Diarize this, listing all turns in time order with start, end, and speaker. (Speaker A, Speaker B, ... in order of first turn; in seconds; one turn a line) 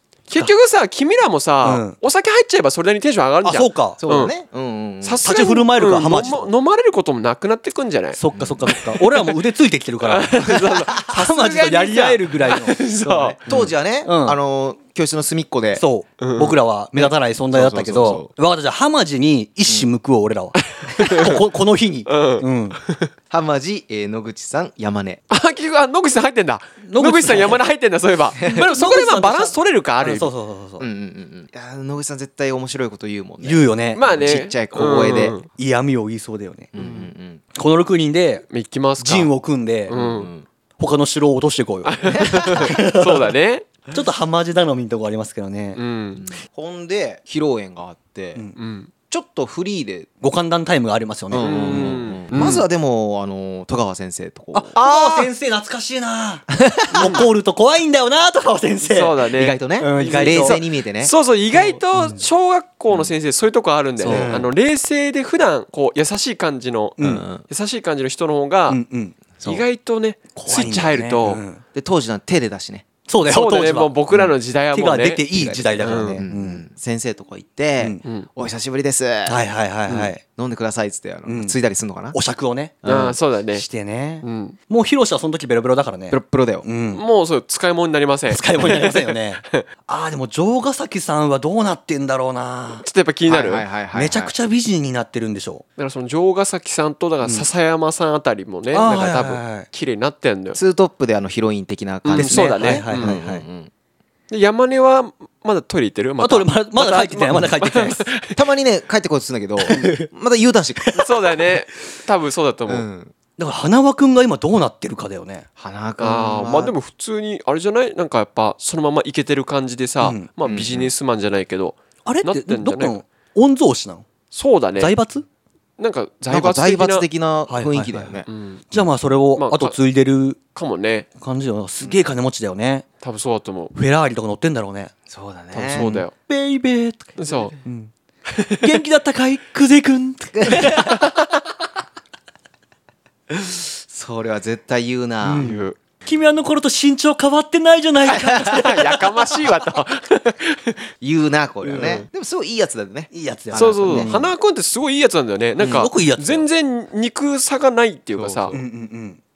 Speaker A: 0.3-4.3
Speaker B: 1.6-2.0
Speaker B: 3.4-4.0
Speaker C: 4.0-5.2
Speaker A: 5.0-9.3
Speaker B: 5.2-6.5
Speaker B: 8.1-10.5
Speaker C: 8.3-8.7
Speaker A: 10.0-13.4
Speaker B: 11.1-14.4
Speaker C: 13.0-15.8
Speaker B: 15.8-22.8
Speaker A: 16.2-16.6
Speaker C: 16.9-18.3
Speaker C: 19.7-19.9
Speaker A: 20.9-21.4
Speaker A: 22.1-23.1
Speaker C: 23.3-25.2
Speaker A: 25.3-30.3
Speaker B: 26.8-27.6
Speaker C: 28.4-28.6
Speaker B: 28.6-30.9
Speaker C: 30.8-35.4
Speaker B: 33.4-34.4
Speaker A: 34.0-35.5
Speaker B: 35.5-36.7
Speaker C: 36.8-37.4
Speaker A: 36.8-37.1
Speaker B: 37.5-38.5
Speaker A: 38.5-39.3
Speaker B: 39.0-39.9
Speaker C: 39.9-40.5
Speaker A: 39.9-40.3
Speaker B: 40.8-43.3
Speaker A: 41.8-43.7
Speaker C: 42.1-42.7
Speaker B: 43.9-45.8
Speaker A: 45.8-46.3
Speaker C: 46.1-48.5
Speaker A: 48.6-48.9
Speaker C: 49.1-50.1
Speaker B: 50.2-52.5
Speaker C: 51.3-54.8
Speaker A: 51.4-52.7
Speaker B: 54.5-59.2
Speaker A: 54.8-55.3
Speaker C: 56.6-57.3
Speaker A: 58.8-68.8
Speaker C: 59.3-61.1
Speaker B: 59.8-60.6
Speaker B: 62.0-62.2
Speaker C: 64.0-64.4
Speaker B: 64.1-64.5
Speaker B: 67.0-67.2
Speaker C: 67.0-67.5
Speaker B: 68.7-69.2
Speaker A: 69.4-71.4
Speaker B: 70.3-71.6
Speaker C: 71.7-72.8
Speaker B: 73.1-74.0
Speaker A: 73.3-76.2
Speaker C: 74.1-74.4
Speaker B: 74.7-76.7
Speaker C: 75.3-82.2
Speaker A: 78.0-78.3
Speaker B: 79.3-80.2
Speaker B: 81.3-81.5
Speaker B: 82.1-82.9
Speaker C: 82.8-83.2
Speaker A: 82.9-83.7
Speaker B: 83.5-87.0
Speaker A: 84.2-84.6
Speaker C: 86.1-86.7
Speaker A: 86.9-89.6
Speaker B: 88.3-92.8
Speaker A: 92.8-93.7
Speaker C: 93.3-94.3
Speaker B: 93.9-95.7
Speaker A: 95.8-100.6
Speaker B: 97.2-97.5
Speaker B: 98.7-99.7
Speaker C: 100.5-103.7
Speaker A: 102.0-103.2
Speaker B: 102.1-103.5
Speaker A: 104.3-108.4
Speaker B: 106.2-108.1
Speaker C: 108.3-111.1
Speaker B: 109.7-110.1
Speaker B: 110.8-111.2
Speaker A: 111.0-112.8
Speaker C: 112.7-113.1
Speaker B: 113.4-115.5
Speaker C: 115.6-116.8
Speaker A: 116.0-123.0
Speaker B: 120.0-120.3
Speaker C: 120.5-120.9
Speaker B: 122.0-124.0
Speaker A: 124.3-125.0
Speaker B: 124.8-125.2
Speaker A: 125.8-127.1
Speaker C: 126.3-128.3
Speaker B: 127.5-130.4
Speaker A: 128.3-128.8
Speaker A: 129.4-129.8
Speaker A: 130.6-131.1
Speaker B: 131.2-132.9
Speaker C: 131.8-132.1
Speaker A: 133.0-133.7
Speaker B: 133.7-134.9
Speaker C: 135.1-135.9
Speaker A: 135.5-136.1
Speaker B: 135.7-137.9
Speaker A: 137.2-137.6
Speaker B: 138.6-141.0
Speaker C: 140.3-141.0
Speaker C: 143.3-145.5
Speaker B: 145.2-149.1
Speaker A: 145.4-145.8
Speaker A: 148.1-150.8
Speaker C: 151.0-154.3
Speaker B: 151.6-152.1
Speaker B: 153.1-154.3
Speaker A: 153.5-158.6
Speaker B: 155.6-156.5
Speaker C: 158.2-158.6
Speaker B: 158.5-159.2